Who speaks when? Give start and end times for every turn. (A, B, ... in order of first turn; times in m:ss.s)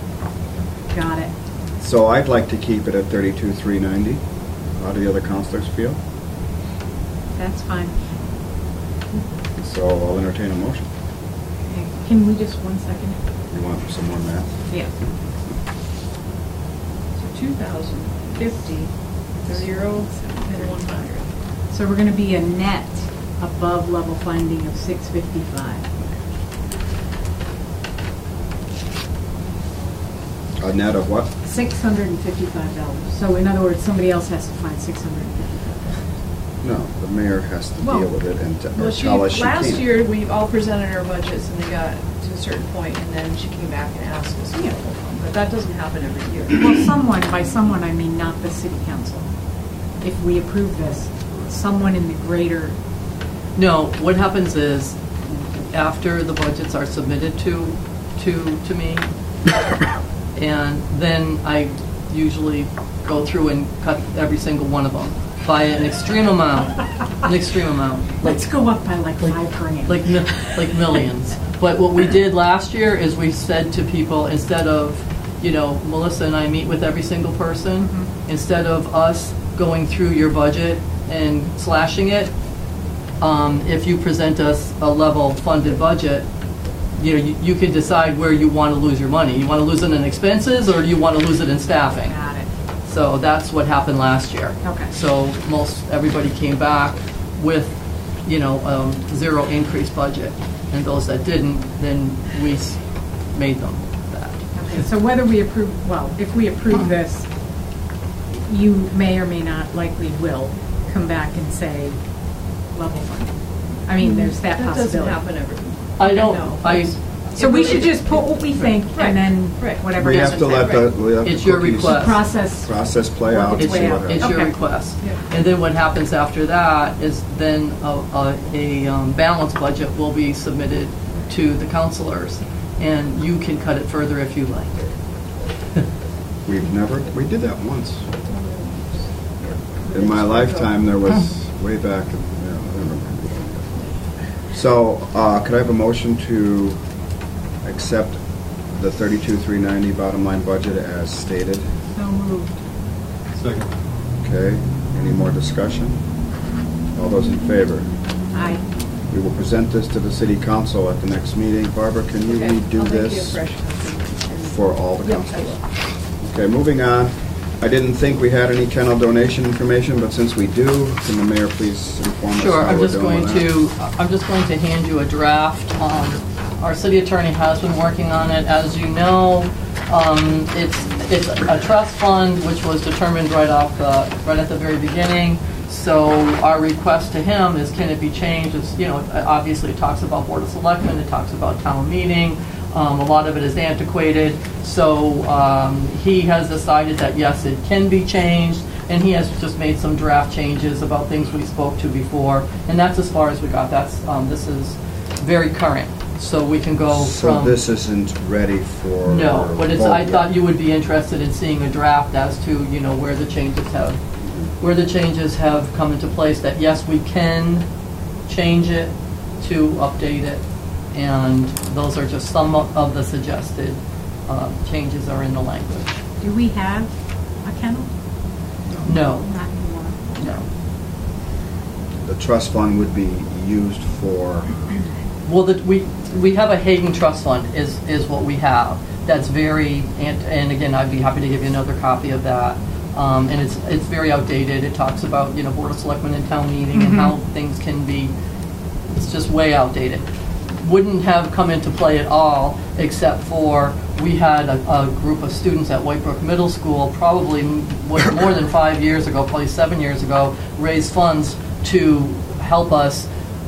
0:00.9-0:01.3 A
0:01.8-0:04.2 B
0:04.8-0:06.0 B
0:07.4-0:08.0 A
0:09.6-0:10.8 B
0:11.7-0:13.2 A
0:13.5-0:15.1 B
0:17.2-0:21.3 C
0:19.4-0:21.1 A
0:21.7-0:25.9 A
0:30.6-0:31.3 B
0:31.4-0:36.0 A
0:36.6-0:39.9 B
0:37.8-0:38.1 A
0:38.8-0:46.9 C
0:46.5-0:49.3 A
0:50.0-0:52.8 A
0:53.6-0:59.1 D
1:00.3-1:08.5 D
1:08.2-1:10.5 A
1:09.2-1:22.3 D
1:17.8-1:18.1 A
1:23.2-1:26.3 D
1:27.0-1:32.2 D
1:31.9-1:32.5 A
1:32.9-1:42.8 D
1:34.6-1:34.9 A
1:43.3-1:44.4 D
1:44.6-1:47.3 A
1:48.3-1:52.0 A
1:52.7-1:53.3 A
1:53.9-1:55.2 A
1:54.0-1:59.9 C
1:56.0-1:57.0 D
1:57.4-2:00.8 A
2:00.0-2:04.4 B
2:00.0-2:02.2 D
2:00.4-2:00.9 C
2:01.8-2:04.6 A
2:03.6-2:14.8 D
2:16.5-2:18.1 B
2:18.2-2:20.8 C
2:19.9-2:23.9 B
2:24.5-2:26.8 B
2:27.6-2:28.2 B
2:28.7-2:31.6 B
2:32.0-2:32.6 A
2:34.2-2:36.0 B
2:37.0-2:37.9 B
2:38.3-2:38.6 A
2:39.1-2:43.4 B
2:42.3-2:45.6 C
2:44.5-2:45.5 B
2:46.2-2:53.5 B
2:52.4-3:27.6 D
3:26.9-3:30.3 B
3:29.1-3:34.0 D
3:34.2-3:34.5 B
3:34.6-3:37.7 D
3:38.3-3:46.0 D
3:46.2-3:46.9 A
3:47.4-3:47.9 A
3:48.7-3:49.0 B
3:48.8-3:49.3 D
3:49.1-3:50.4 A
3:50.2-3:50.4 D
3:52.0-3:54.6 B
3:55.2-4:08.1 D
4:06.7-4:07.1 A
4:08.9-4:10.0 D
4:10.6-4:23.1 D